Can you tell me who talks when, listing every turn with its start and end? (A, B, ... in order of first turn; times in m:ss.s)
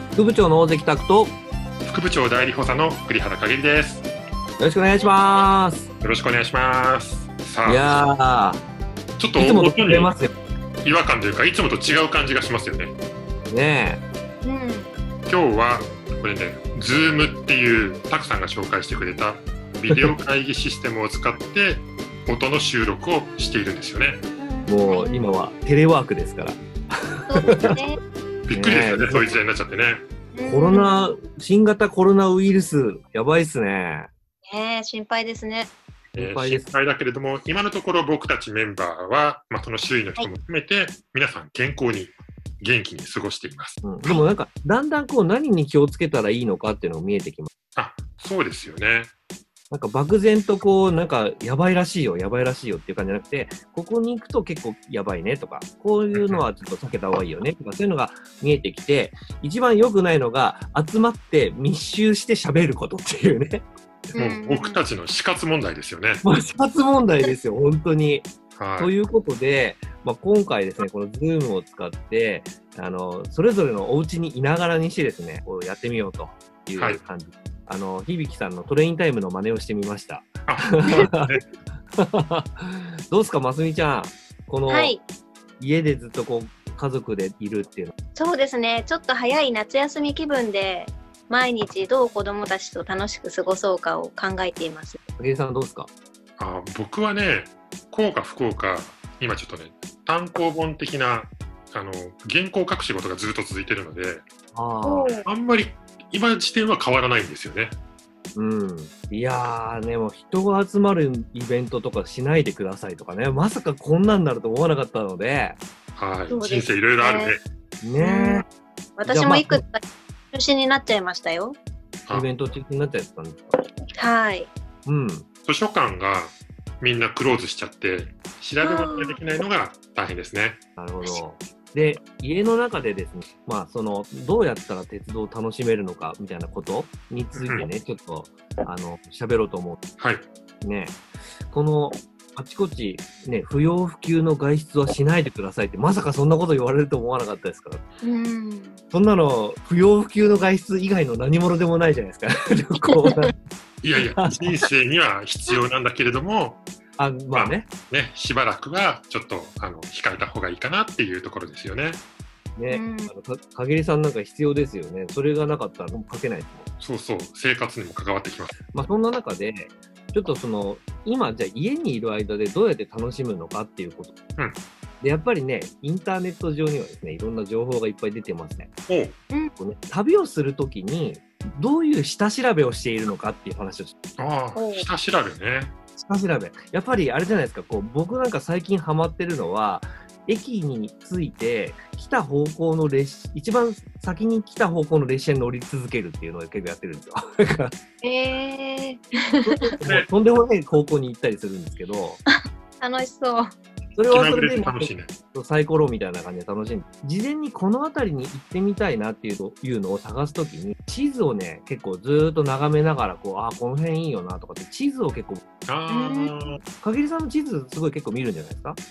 0:00.1-0:01.4 A
0:01.8-0:04.0 B
0:04.6-0:05.9 A
0:04.9-0:05.5 C
0:06.0-0:08.0 B
0:07.6-0:08.6 A
0:09.2-0:10.1 B
0:09.3-0:10.3 A
0:10.8-0:12.9 B
0:13.5-0:14.0 A
0:14.4-0:14.9 C
0:15.3-0:24.2 B
0:19.9-0:20.1 A
0:24.4-0:25.3 C
0:24.7-0:27.8 A
0:27.3-0:28.0 C
0:28.5-0:30.0 B
0:28.5-0:29.3 A
0:30.3-0:31.1 C
0:30.4-0:34.1 A
0:34.5-0:35.7 C
0:36.1-0:36.7 A
0:36.2-0:43.8 B
0:43.8-0:47.5 A
0:47.7-0:49.1 B
0:49.7-1:03.7 A
0:56.1-0:56.4 B
1:04.1-1:04.8 C
1:04.2-1:06.2 B
1:06.2-1:21.3 A
1:08.6-1:08.9 B
1:20.4-1:21.4 B
1:22.0-1:25.0 A
1:24.7-1:25.0 C
1:25.6-1:27.9 A
1:28.1-1:35.0 C
1:35.2-1:35.9 A
1:36.4-1:44.2 B
1:44.5-1:45.1 A
1:44.8-1:45.2 C
1:45.2-1:47.8 B
1:48.3-1:55.6 A
1:56.0-1:57.4 B
1:56.3-1:57.3 C
1:57.8-1:58.4 A
1:58.0-1:58.4 C
1:59.0-2:01.6 C
1:59.1-1:59.6 A
2:02.1-2:03.5 A
2:04.0-2:04.5 C
2:04.8-2:05.2 A
2:05.4-2:10.6 B
2:08.6-2:09.2 C
2:10.8-2:19.8 A
2:17.3-2:17.7 B
2:20.0-2:20.2 B
2:20.6-2:27.8 A
2:28.0-2:28.8 C
2:28.9-2:33.3 A
2:33.8-2:36.6 B
2:34.2-2:34.5 A
2:37.0-2:37.7 A
2:37.3-2:42.0 B
2:42.6-2:46.7 A
2:42.7-2:43.1 C
2:46.8-2:48.6 B
2:48.7-2:54.1 A
2:55.0-2:58.7 A
2:58.9-2:59.2 B
2:59.6-3:03.9 A
3:04.2-3:05.7 B
3:04.5-3:04.9 C
3:06.0-3:17.7 A
3:18.0-3:19.5 C
3:19.4-3:22.2 A
3:22.8-3:23.5 C
3:24.0-3:35.4 A
3:24.1-3:25.1 B
3:35.6-3:36.6 B
3:35.9-3:36.5 C
3:36.8-3:38.8 A